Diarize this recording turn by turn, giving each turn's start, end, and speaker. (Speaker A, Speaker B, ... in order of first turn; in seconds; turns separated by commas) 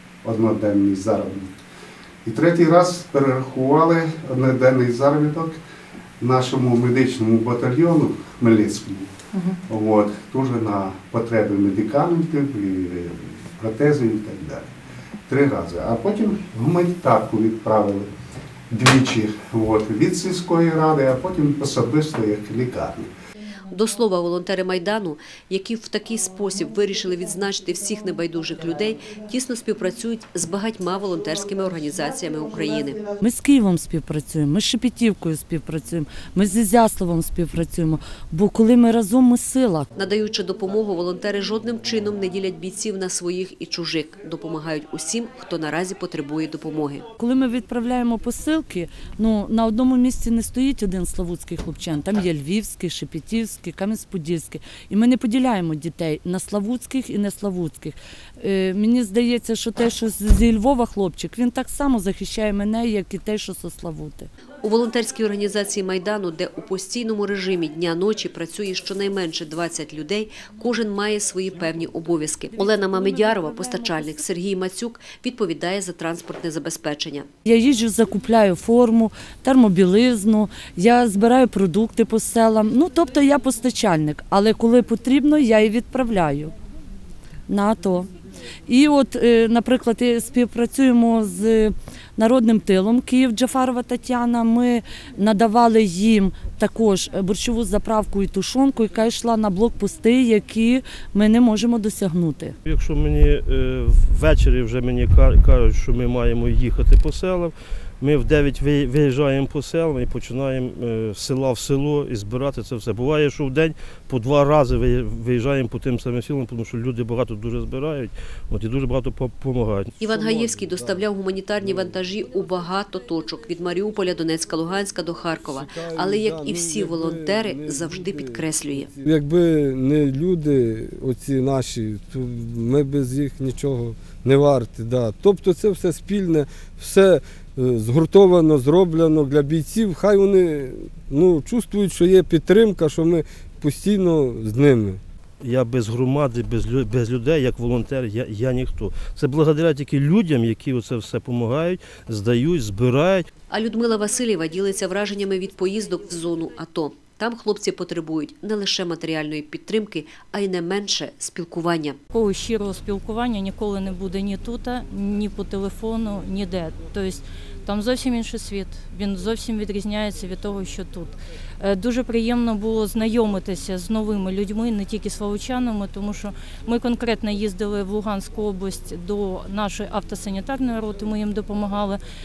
Speaker A: 0.2-1.5, Speaker A: 2.2-5.6, Speaker A: 6.2-9.1, Speaker A: 9.7-14.7, Speaker A: 15.3-18.1, Speaker A: 18.7-23.1, Speaker B: 23.8-33.0, Speaker A: 25.1-25.9, Speaker A: 29.1-30.8, Speaker A: 31.4-32.4, Speaker C: 33.2-39.9, Speaker A: 40.0-40.5, Speaker B: 40.1-47.0, Speaker A: 43.5-45.6, Speaker C: 47.2-64.3, Speaker B: 64.6-77.2, Speaker C: 77.5-86.5, Speaker C: 87.5-88.1, Speaker C: 88.7-102.5, Speaker D: 102.6-120.0, Speaker E: 120.0-121.0, Speaker B: 120.0-121.5, Speaker A: 120.1-123.3, Speaker E: 121.6-122.0, Speaker B: 122.2-125.5, Speaker A: 124.2-128.9, Speaker E: 125.4-145.0, Speaker D: 145.4-153.3, Speaker B: 153.5-162.0, Speaker F: 162.1-182.0